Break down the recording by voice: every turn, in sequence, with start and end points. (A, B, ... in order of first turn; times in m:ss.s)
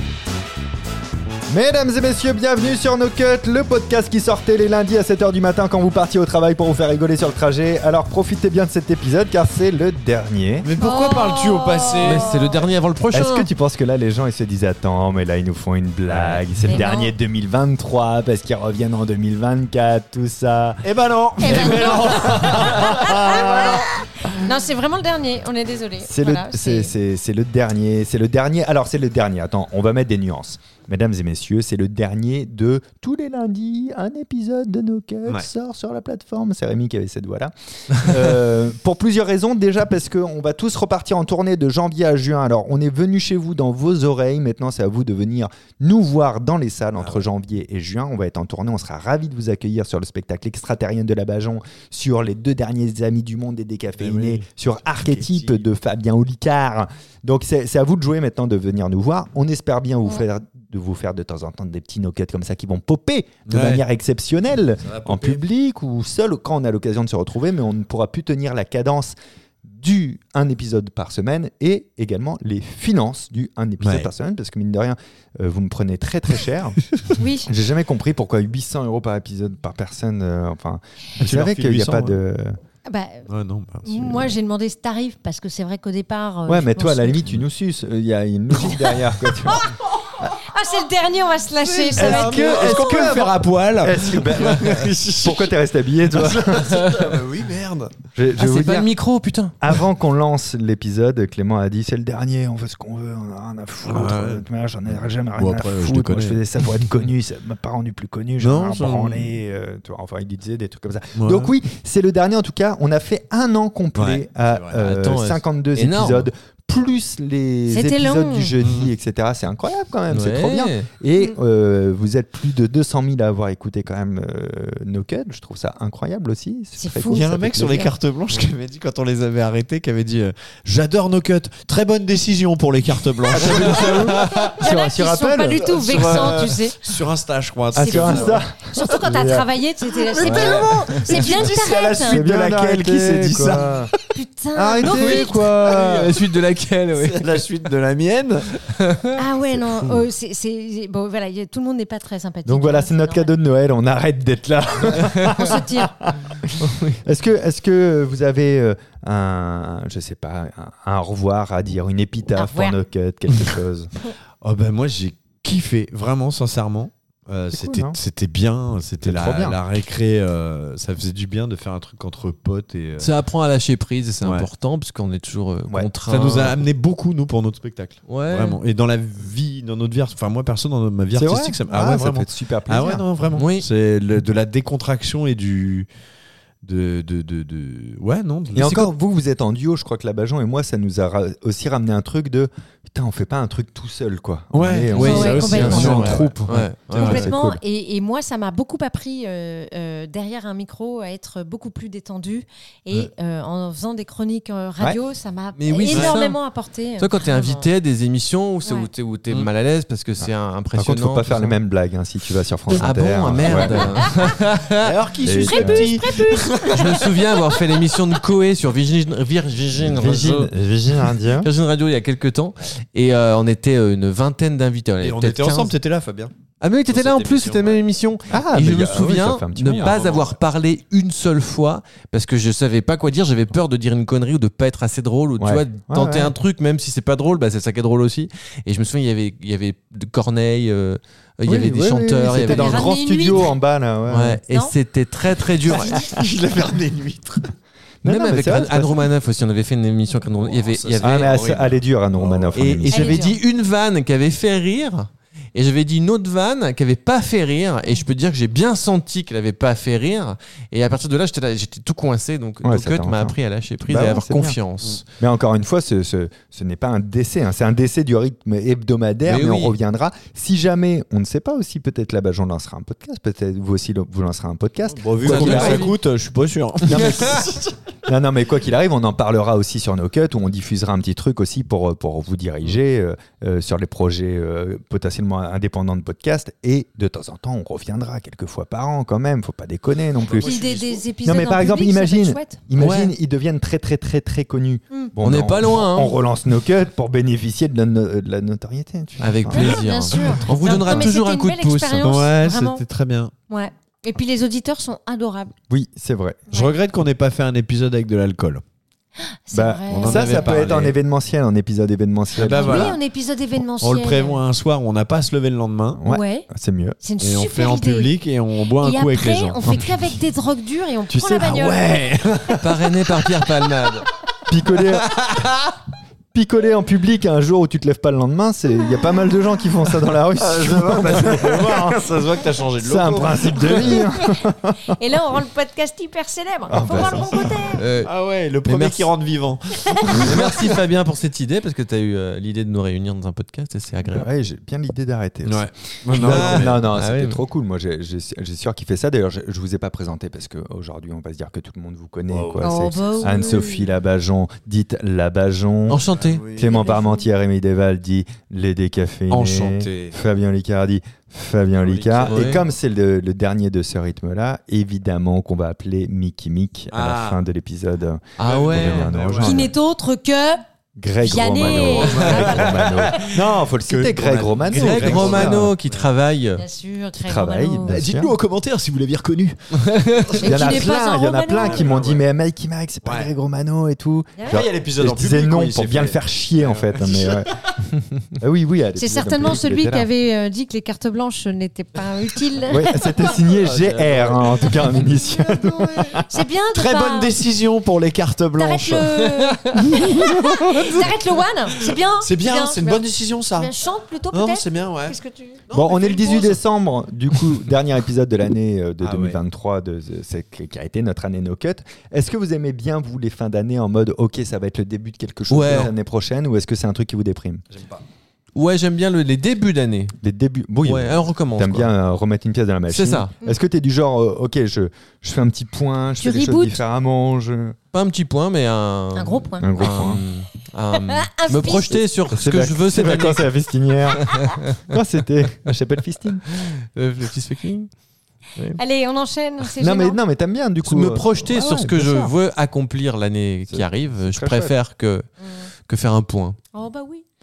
0:01.5-0:10.7 A
0:10.6-0:12.3 B
0:10.8-0:12.6 C
0:12.0-0:13.5 D
0:13.1-0:20.9 A
0:16.1-0:16.5 B
0:16.6-0:17.1 C
0:20.8-0:23.9 B
0:21.4-0:23.9 A
0:21.4-0:26.9 C
0:26.0-1:22.6 A
0:54.0-0:55.6 B
1:03.5-1:03.8 B
1:04.8-1:05.4 B
1:13.8-1:14.1 B
1:17.2-1:17.5 C
1:21.2-1:22.2 B
1:22.8-1:23.3 C
1:23.3-1:24.3 B
1:23.8-1:27.2 C
1:26.5-1:29.7 A
1:28.6-1:33.2 C
1:31.6-1:35.5 B
1:32.0-1:37.0 A
1:36.1-1:37.9 B
1:36.7-1:37.2 D
1:38.2-1:38.9 A
1:38.4-1:39.7 D
1:39.6-2:07.9 A
1:43.9-1:44.4 B
1:45.4-1:46.8 B
1:48.4-1:49.3 B
1:51.2-1:51.5 B
1:54.0-1:54.8 B
1:54.8-1:56.3 D
1:57.7-1:58.5 C
1:58.6-1:58.9 B
2:00.1-2:00.9 D
2:06.8-2:07.3 C
2:07.1-2:14.6 B
2:13.3-2:16.4 A
2:13.5-2:13.9 D
2:14.5-2:16.8 C
2:15.6-2:18.4 B
2:17.7-2:19.5 A
2:17.8-2:22.2 C
2:20.0-2:24.0 B
2:20.2-2:23.9 A
2:24.1-2:25.7 C
2:24.6-2:26.1 A
2:24.8-2:27.4 D
2:25.6-2:26.2 B
2:27.0-2:28.6 B
2:28.7-2:29.2 D
2:29.2-2:33.3 C
2:29.6-2:30.0 B
2:32.5-2:43.9 A
2:35.3-2:36.0 C
2:36.6-2:37.0 D
2:42.4-2:42.8 C
2:44.4-2:53.1 B
2:47.5-2:48.0 A
2:49.0-2:49.6 A
2:53.0-2:56.6 D
2:56.1-3:05.9 B
2:58.1-2:58.6 D
3:01.1-3:03.0 A
3:03.4-3:03.7 D
3:06.6-3:08.9 B
3:08.5-3:17.6 A
3:14.5-3:16.3 B
3:14.9-3:17.3 D
3:15.0-3:16.0 C
3:17.0-3:27.7 C
3:25.6-3:26.4 D
3:25.9-3:26.2 B
3:27.0-3:31.6 D
3:28.6-3:28.9 C
3:30.2-3:34.0 A
3:32.7-3:34.9 D
3:34.8-3:37.3 B
3:35.2-3:36.0 A
3:35.4-3:37.9 C
3:36.7-3:40.5 D
3:39.8-3:41.5 A
3:41.4-3:45.7 D
3:45.0-3:46.3 B
3:46.6-4:02.9 D
3:46.9-3:47.8 B
3:48.3-3:50.0 A
3:49.7-3:50.4 B
3:55.4-3:56.4 A
4:01.5-4:04.4 A
4:02.4-4:03.5 C
4:04.1-4:06.0 D
4:04.5-4:04.8 C
4:05.7-4:06.1 C
4:05.8-4:07.5 B
4:08.0-4:08.9 A
4:08.0-4:11.6 D
4:10.4-4:12.6 B
4:11.0-4:13.2 A
4:12.6-4:25.0 D
4:12.9-4:13.4 C
4:22.6-4:24.6 A
4:25.2-4:35.9 A
4:29.3-4:29.8 D
4:34.9-4:37.8 B
4:35.2-4:36.0 D
4:36.8-4:50.6 A
4:36.9-4:37.4 D
4:50.2-4:51.0 B
4:50.4-4:52.6 C
4:51.2-4:59.8 A
4:52.8-4:53.1 D
4:55.2-4:56.2 D
4:59.2-5:02.2 D
4:59.5-5:02.8 C
5:02.0-5:03.3 B
5:03.5-5:05.6 C
5:05.7-5:06.5 A
5:06.5-5:06.8 C
5:06.5-5:08.6 B
5:09.2-5:10.5 C
5:09.5-5:13.0 A
5:10.0-5:10.9 B
5:12.4-5:13.0 B
5:12.4-5:14.4 C
5:13.8-5:16.0 B
5:15.9-5:17.0 A
5:16.1-5:16.5 C
5:17.0-5:18.1 C
5:17.2-5:19.9 B
5:18.8-5:22.0 C
5:21.1-5:22.6 A
5:21.4-5:23.7 B
5:22.6-5:24.1 D
5:24.5-5:25.3 A
5:24.8-5:25.8 B
5:26.3-5:32.0 A
5:30.4-5:34.3 B
5:32.8-5:35.0 A
5:35.0-5:37.8 C
5:36.7-5:37.8 A
5:37.0-5:37.4 B
5:37.8-5:38.1 D
5:38.0-5:40.8 B
5:38.6-5:39.1 D
5:40.2-5:44.3 D
5:44.0-6:09.7 A
5:45.4-5:46.8 B
5:46.1-5:47.4 D
5:52.3-5:53.6 B
5:52.6-5:53.9 C
5:55.9-5:56.4 D
5:56.1-5:56.8 B
5:56.7-5:57.3 C
5:59.3-6:00.2 B
6:01.8-6:02.6 B
6:02.2-6:02.6 D
6:06.9-6:07.4 B
6:08.4-6:09.2 D
6:08.4-6:09.7 B
6:09.4-6:10.6 C
6:11.0-6:15.7 A
6:11.2-6:13.2 C
6:11.6-6:16.1 B
6:12.0-6:12.6 D
6:14.7-6:16.6 D
6:16.6-6:18.0 C
6:17.2-6:18.4 A
6:17.9-6:20.9 B
6:19.8-6:20.3 D
6:20.4-6:21.9 C
6:20.4-6:27.6 A
6:21.6-6:22.2 B
6:23.0-6:23.3 B
6:24.4-6:24.6 C
6:24.5-6:27.8 B
6:28.4-6:30.1 A
6:29.0-6:33.4 C
6:32.7-6:36.3 A
6:33.2-6:39.0 B
6:36.3-6:37.3 C
6:38.6-6:45.6 C
6:39.9-6:41.1 B
6:41.8-6:43.7 B
6:44.3-6:45.2 B
6:45.7-6:46.6 B
6:45.7-6:57.6 A
6:49.0-6:49.4 B
6:55.5-6:55.9 D
6:57.7-6:58.0 B
6:58.6-7:00.2 D
7:00.2-7:07.8 A
7:00.8-7:01.9 D
7:02.9-7:03.3 D
7:06.2-7:06.8 C
7:07.9-7:13.5 D
7:09.2-7:09.8 C
7:09.6-7:10.2 A
7:10.9-7:12.0 C
7:12.3-7:16.4 A
7:14.1-7:15.0 D
7:16.5-7:17.9 D
7:18.8-7:20.2 C
7:19.8-7:22.3 A
7:20.8-7:25.2 D
7:23.7-7:24.7 A
7:25.4-7:25.7 C
7:25.8-7:26.6 D
7:26.7-7:27.2 C